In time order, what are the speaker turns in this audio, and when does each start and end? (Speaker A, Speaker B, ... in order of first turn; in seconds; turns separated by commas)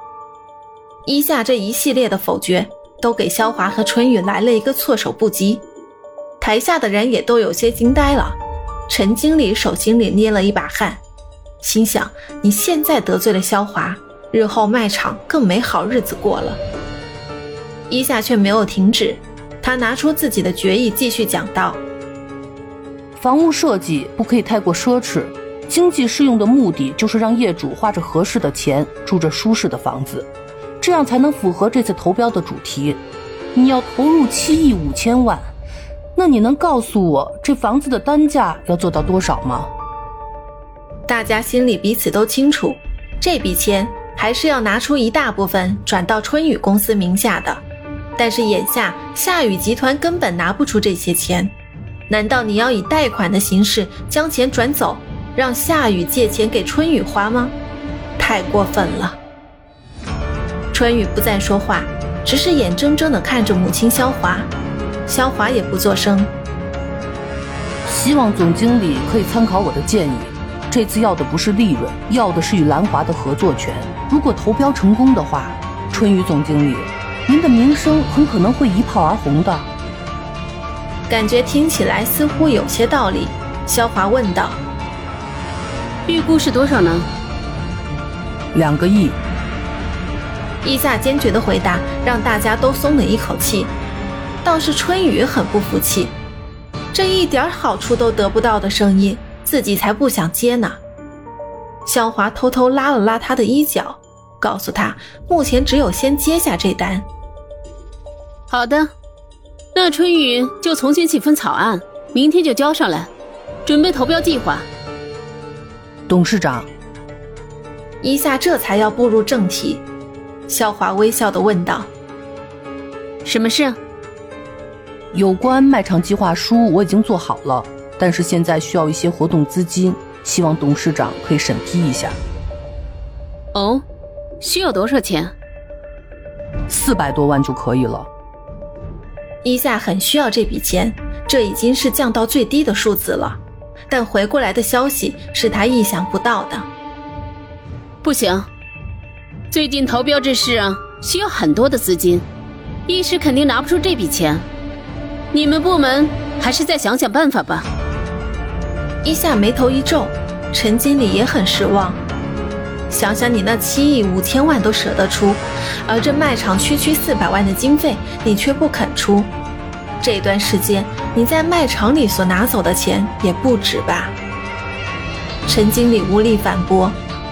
Speaker A: 1.1-5.6, Speaker A: 6.4-11.0, Speaker A: 11.6-16.6, Speaker A: 17.9-21.8, Speaker B: 23.2-30.3, Speaker B: 30.8-33.0, Speaker B: 33.5-35.5, Speaker B: 36.2-39.7, Speaker A: 41.1-47.6, Speaker A: 48.2-51.5, Speaker A: 52.1-57.5, Speaker A: 58.2-59.2, Speaker A: 60.7-64.5, Speaker A: 65.1-66.3, Speaker B: 67.8-79.7, Speaker A: 81.1-84.6, Speaker C: 86.1-87.1, Speaker B: 88.5-89.2, Speaker A: 90.6-93.7, Speaker A: 94.4-96.2, Speaker A: 96.9-100.8, Speaker A: 101.9-107.1, Speaker C: 108.5-108.9, Speaker C: 109.7-113.1, Speaker C: 113.7-114.7, Speaker B: 116.1-116.7, Speaker A: 118.0-119.8, Speaker A: 120.5-121.9, Speaker C: 123.2-123.8, Speaker B: 125.1-132.2, Speaker C: 133.5-133.8, Speaker C: 134.4-135.3, Speaker B: 136.7-138.1, Speaker A: 139.4-146.7, Speaker C: 148.0-148.5, Speaker C: 149.5-152.3, Speaker C: 152.9-154.4, Speaker C: 155.3-157.7, Speaker A: 159.0-162.0, Speaker A: 162.9-169.3, Speaker A: 170.0-174.2, Speaker A: 175.5-177.0